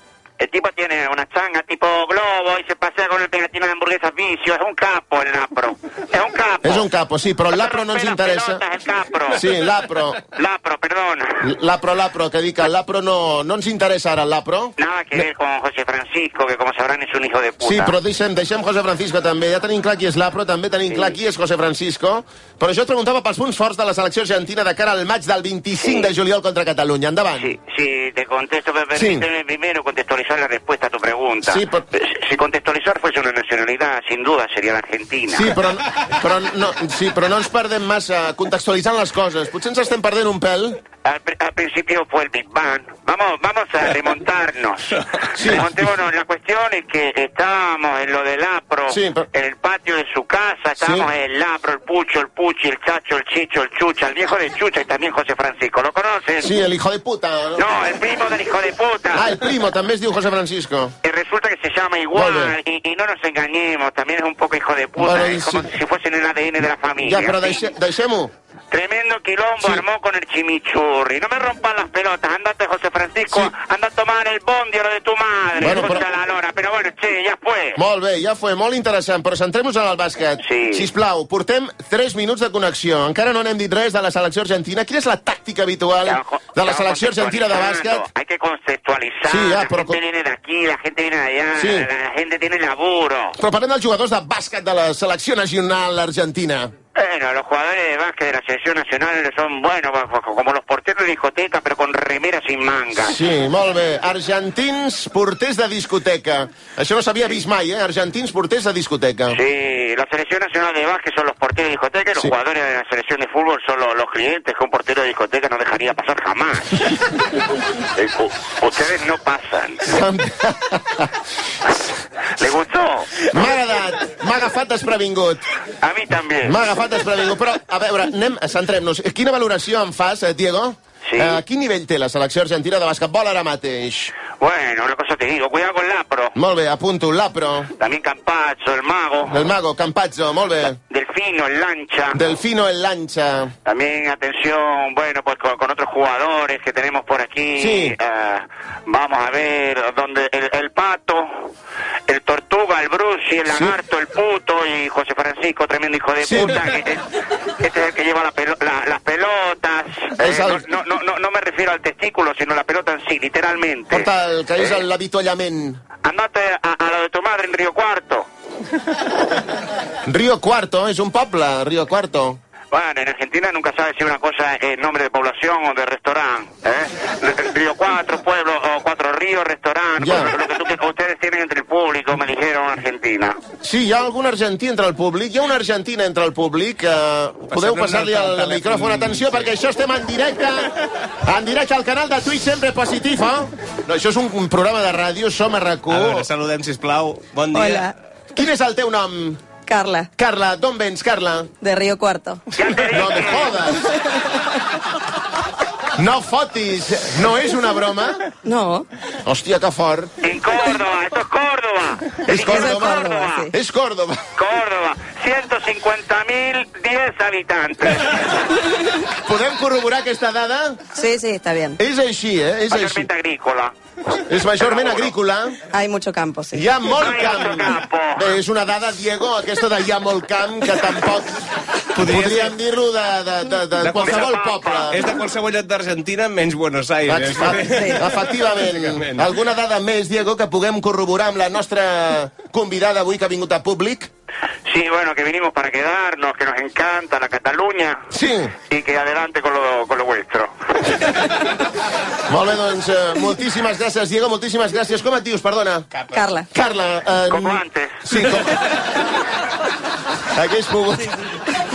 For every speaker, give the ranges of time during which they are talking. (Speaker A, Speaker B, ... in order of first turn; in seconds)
Speaker A: 0.4-6.9, 7.5-9.4, 10.3-11.5, 14.8-17.9, 20.9-21.1, 25.8-26.1, 27.4-35.5, 41.0-56.5, 57.5-59.4, 61.0-67.6, 68.7-77.8, 80.4-80.9, 86.0-93.4, 96.9-103.2, 109.3-117.2, 117.8-119.9, 122.4-123.3, 125.8-126.6, 131.1-131.4, 134.4-136.4, 137.8-139.5, 140.9-142.2, 143.6-151.5, 152.1-164.8, 166.0-168.3, 172.7-183.4, 202.5-203.6, 210.2-213.5, 214.3-218.4, 222.7-223.7, 224.6-225.1, 226.9-228.3, 233.9-234.9, 244.7-248.0, 248.6-251.2, 257.3-258.0
Speaker B: 6.6-8.6, 9.3-10.2, 11.4-15.2, 17.6-27.5, 28.9-29.2, 31.4-31.8, 35.3-40.8, 45.3-45.7, 48.9-49.2, 50.8-51.1, 56.4-57.6, 59.1-60.9, 62.1-62.5, 65.0-65.7, 67.0-68.3, 75.6-76.0, 77.8-88.0, 89.3-90.0, 91.6-91.9, 93.4-96.7, 103.0-109.4, 119.8-121.1, 123.3-125.5, 126.4-134.1, 136.3-137.7, 139.3-140.8, 142.1-143.5, 147.6-147.9, 153.5-153.8, 156.2-156.6, 160.2-160.6, 163.9-165.8, 170.0-172.4, 180.0-180.3, 183.6-196.3, 198.3-199.4, 200.2-201.5, 202.9-203.9, 205.9-208.2, 209.2-210.1, 212.2-214.2, 219.1-220.8, 221.8-223.1, 224.1-225.6, 226.5-231.4, 232.0-235.0, 237.1-244.1, 248.1-248.5, 252.3-255.9, 256.5-258.7, 260.3-261.3
Speaker C: 187.5-189.5, 195.9-197.9, 231.9-232.5, 233.8-234.3, 234.9-239.3
Speaker D: 197.5-197.9, 199.6-200.1, 201.6-202.5, 203.9-204.5, 208.4-208.9, 212.3-213.5, 220.9-221.8, 225.7-226.7, 256.1-256.5